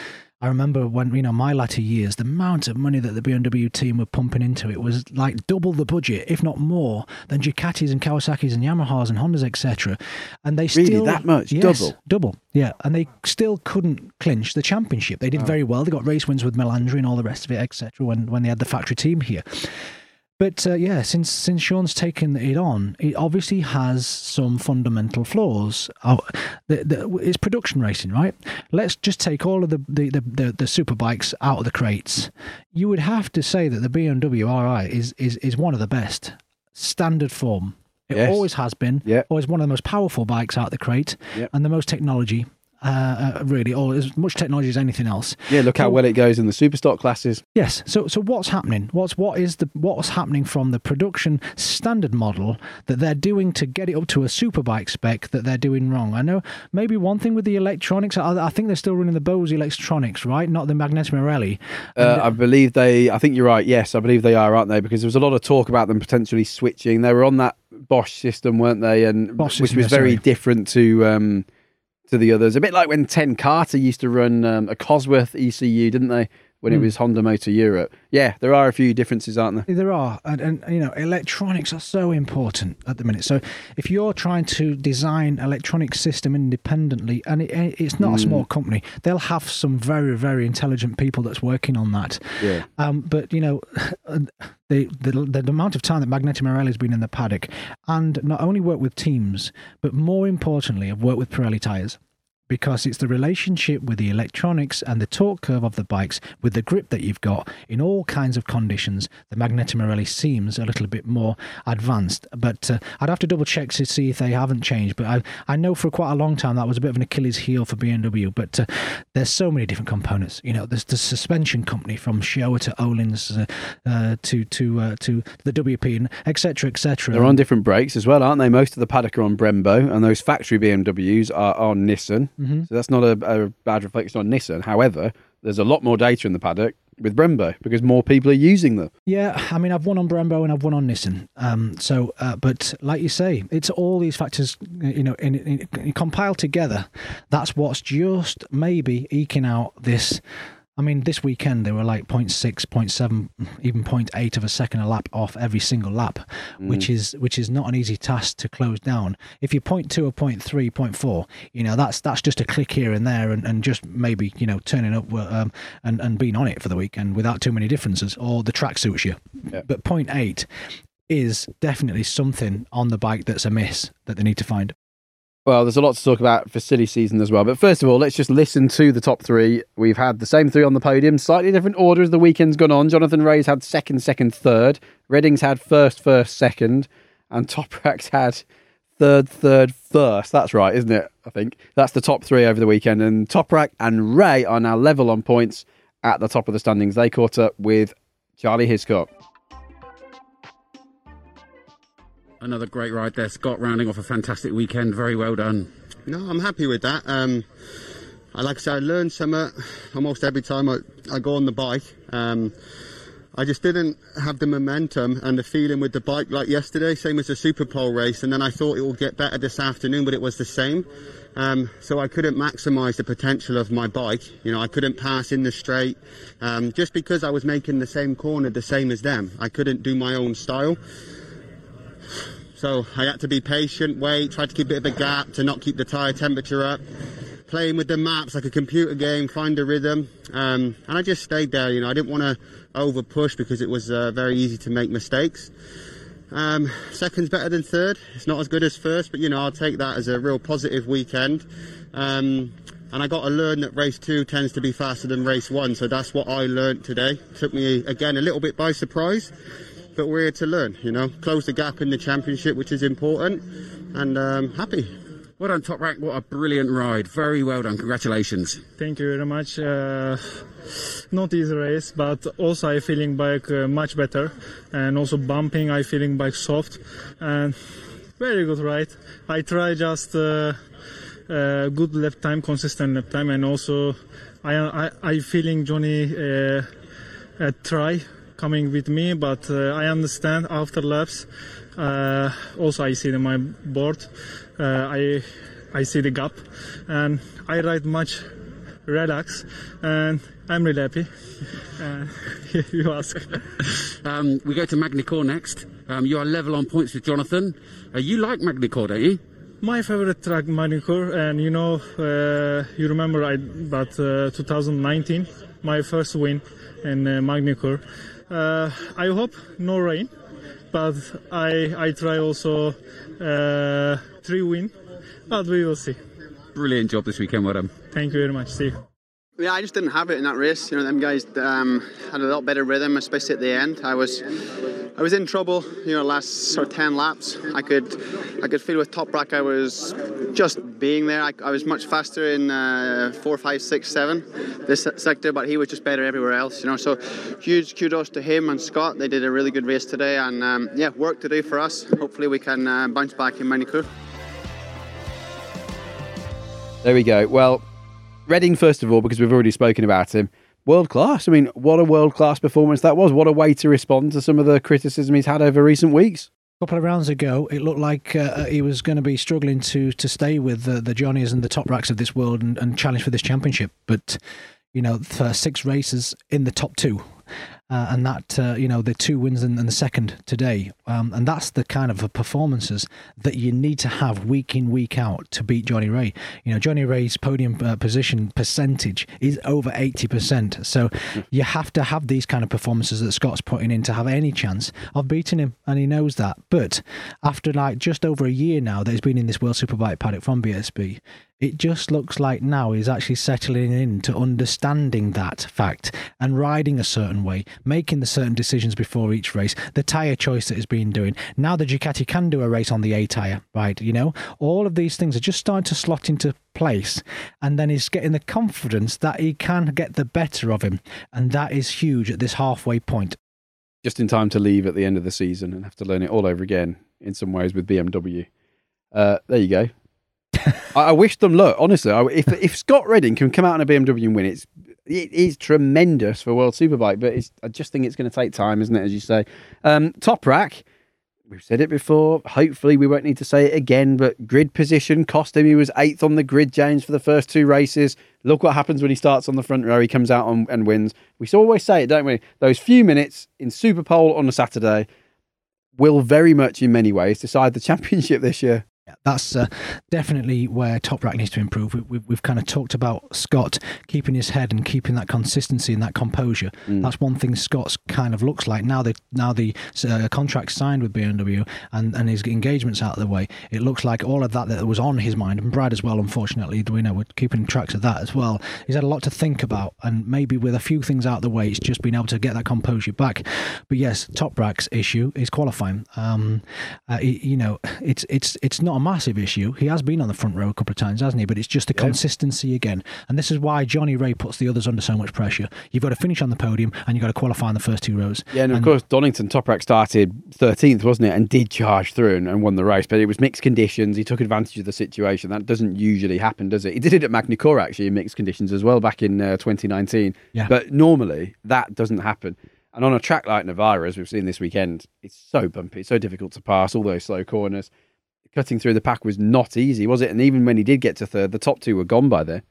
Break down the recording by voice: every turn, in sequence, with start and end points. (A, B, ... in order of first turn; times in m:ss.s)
0:00.4-0:46.0 A
0:10.7-0:11.9 B
0:38.1-0:38.4 B
0:45.5-0:47.4 B
0:47.5-1:02.3 A
1:02.0-1:11.4 B
1:09.4-1:10.2 A
1:12.1-1:19.6 B
1:19.7-2:07.4 A
1:28.0-1:28.4 B
1:32.4-1:32.6 B
2:07.1-2:18.9 B
2:12.4-2:12.7 A
2:19.0-2:30.2 A
2:30.8-2:50.5 A
2:51.1-2:54.7 A
2:55.4-3:08.4 B
3:09.0-3:19.1 B
3:22.4-3:25.7 C
3:26.1-3:27.5 D
3:28.3-3:32.5 D
3:33.3-3:50.8 D
3:52.6-3:56.8 D
3:57.5-4:05.5 D
4:06.3-4:19.3 D
4:20.0-4:24.9 D
4:25.4-4:28.6 C
4:28.8-4:30.5 E
4:31.1-4:37.6 E
4:38.2-4:40.6 E
4:41.3-4:46.7 E
4:47.4-4:58.2 E
4:58.9-5:01.1 E
5:01.8-5:03.4 E
5:04.0-5:09.2 C
5:09.6-5:20.1 E
5:20.7-5:24.7 E
5:25.3-5:26.0 E
5:26.5-5:27.7 C
5:27.9-5:28.8 E
5:29.4-5:34.2 F
5:35.0-5:53.9 F
5:56.8-5:57.6 B
5:58.3-6:06.3 B
6:06.6-6:14.2 A
6:14.7-6:17.2 A
6:17.7-7:03.2 A
7:03.8-7:08.3 B
7:08.9-7:09.7 B
7:10.7-7:20.6 B
7:21.3-7:34.9 B
7:35.8-7:38.6 B
7:39.0-8:18.7 A
8:18.3-8:37.7 B
8:38.3-8:42.4 B